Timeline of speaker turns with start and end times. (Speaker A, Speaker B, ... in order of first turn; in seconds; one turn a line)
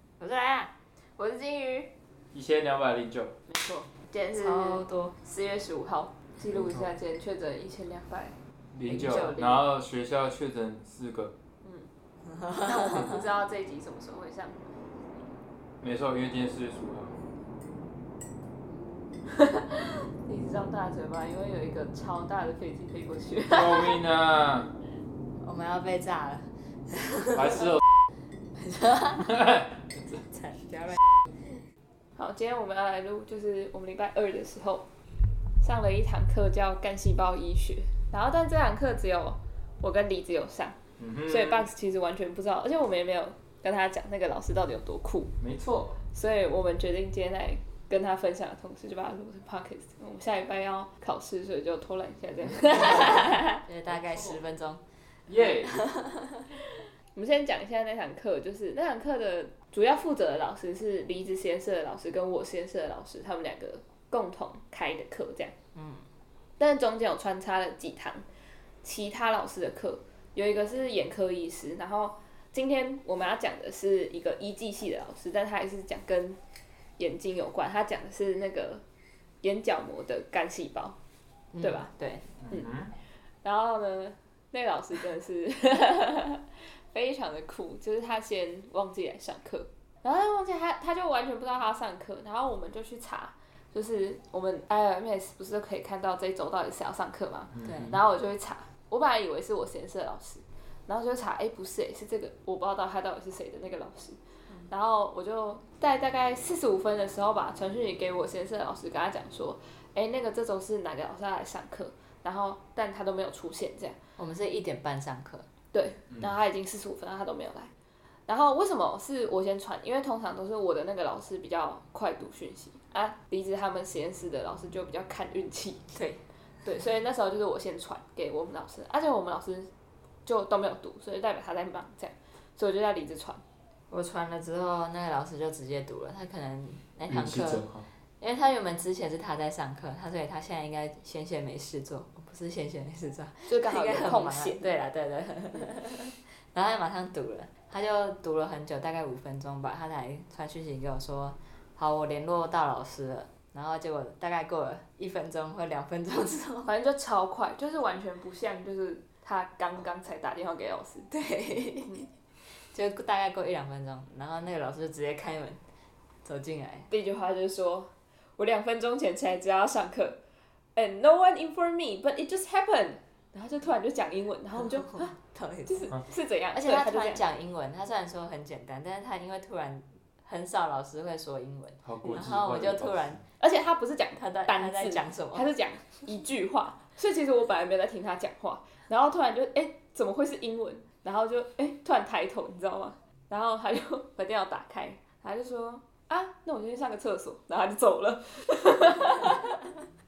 Speaker A: 0.2-0.7
Speaker B: 1.2-1.9
Speaker C: 2.3-3.4
Speaker B: 3.5-8.3
Speaker A: 4.3-5.1
Speaker C: 6.5-6.9
Speaker C: 8.7-11.3
Speaker A: 8.9-9.4
Speaker B: 8.9-9.6
Speaker B: 11.6-11.9
Speaker A: 12.5-13.2
Speaker B: 12.6-14.6
Speaker C: 15.8-17.2
Speaker B: 19.3-24.0
Speaker C: 23.5-24.7
Speaker A: 25.4-27.7
Speaker C: 27.3-27.8
Speaker A: 28.6-29.3
Speaker C: 29.2-30.2
Speaker A: 30.3-31.0
Speaker B: 32.2-34.9
Speaker B: 35.6-40.8
Speaker C: 41.0-41.7
Speaker B: 41.3-45.3
Speaker C: 45.4-45.9
Speaker B: 46.0-53.6
Speaker A: 52.8-54.8
Speaker C: 53.9-54.4
Speaker C: 55.3-55.8
Speaker A: 55.6-56.4
Speaker B: 57.1-65.5
Speaker A: 65.7-66.0
Speaker B: 66.6-68.2
Speaker B: 68.8-76.4
Speaker B: 77.0-78.8
Speaker B: 79.4-81.0
Speaker A: 81.5-82.2
Speaker B: 81.6-81.9
Speaker C: 82.4-82.9
Speaker B: 83.4-104.2
Speaker C: 97.5-98.0
Speaker A: 97.6-98.0
Speaker B: 104.7-114.0
Speaker A: 114.2-115.5
Speaker B: 115.7-117.7
Speaker B: 118.3-125.8
Speaker A: 125.9-126.2
Speaker B: 126.6-129.7
Speaker B: 130.2-133.4
Speaker A: 133.9-137.7
Speaker C: 137.1-137.9
Speaker A: 138.2-156.7
Speaker B: 143.5-144.7
Speaker B: 156.6-161.1
Speaker A: 161.1-162.0
Speaker A: 162.7-165.6
Speaker A: 166.2-166.9
Speaker B: 166.9-170.2
Speaker B: 170.8-175.2
Speaker A: 174.8-175.9
Speaker B: 175.7-177.2
Speaker A: 176.5-183.2
Speaker C: 181.8-183.2
Speaker B: 183.4-199.7
Speaker A: 184.2-185.5